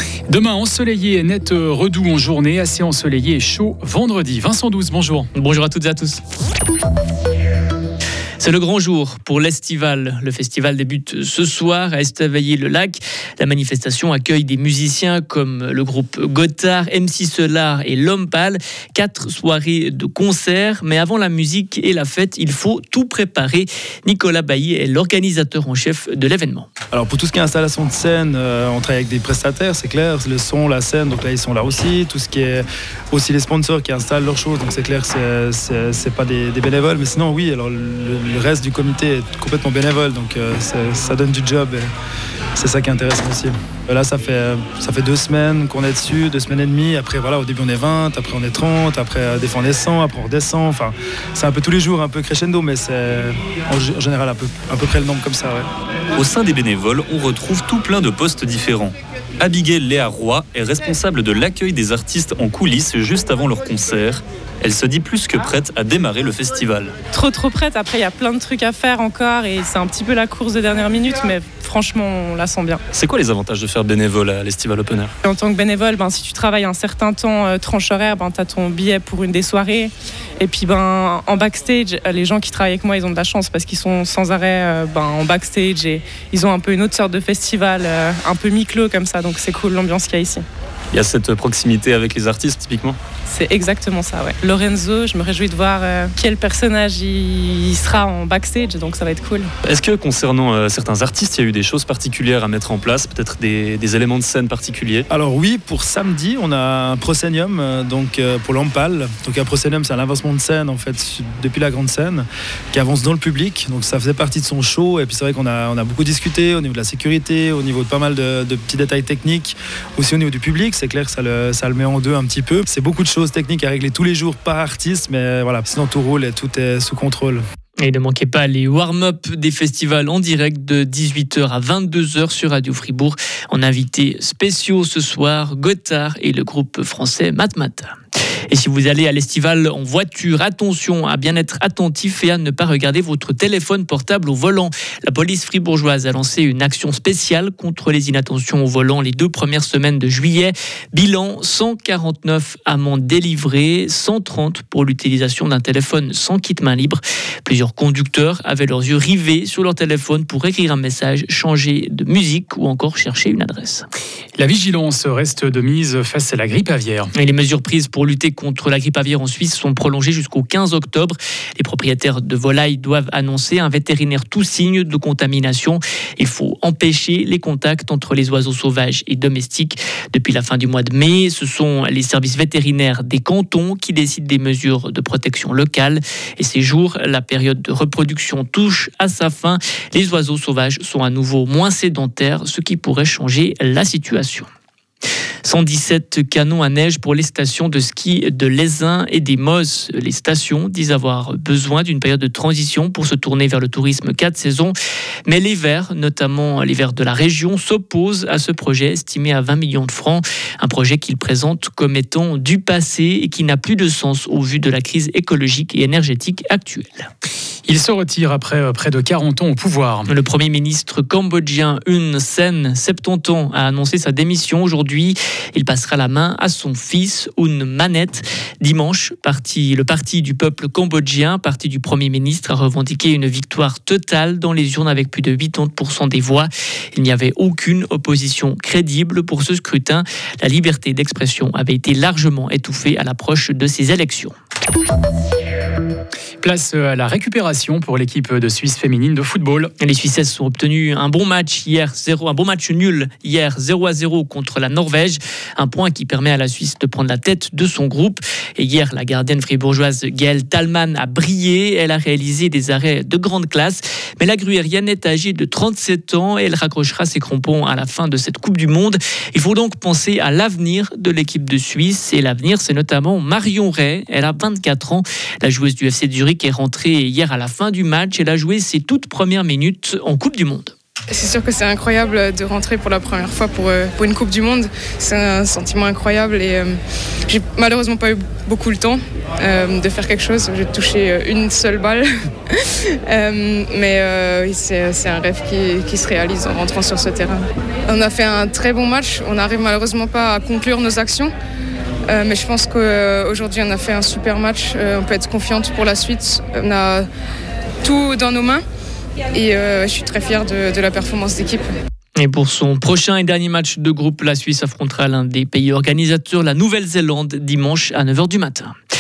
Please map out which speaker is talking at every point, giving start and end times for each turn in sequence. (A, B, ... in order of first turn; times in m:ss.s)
0:00.3-0:05.3 A
0:05.3-0:06.2 B
0:08.4-0:26.7 B
0:26.9-0:41.9 C
0:42.6-0:55.7 C
0:56.2-1:06.9 D
1:07.1-1:12.8 E
1:12.9-1:15.1 D
1:15.2-1:30.4 E
1:30.9-1:33.0 D
1:33.3-1:39.5 E
1:39.7-1:45.0 D
1:45.1-2:07.4 C
2:07.8-2:17.9 B
2:18.5-2:43.9 B
2:44.4-2:47.1 A
2:47.2-3:14.5 B
3:15.4-3:24.8 B
3:25.3-3:37.1 B
3:37.7-3:40.1 A
3:40.1-4:04.4 B
4:06.4-4:09.7 A
4:09.8-4:40.7 B
4:41.1-4:46.7 F
4:47.3-4:52.6 F
4:53.1-5:01.3 F
5:02.1-5:07.1 F
5:07.8-5:08.6 F
5:09.3-5:11.6 F
5:12.2-5:18.7 B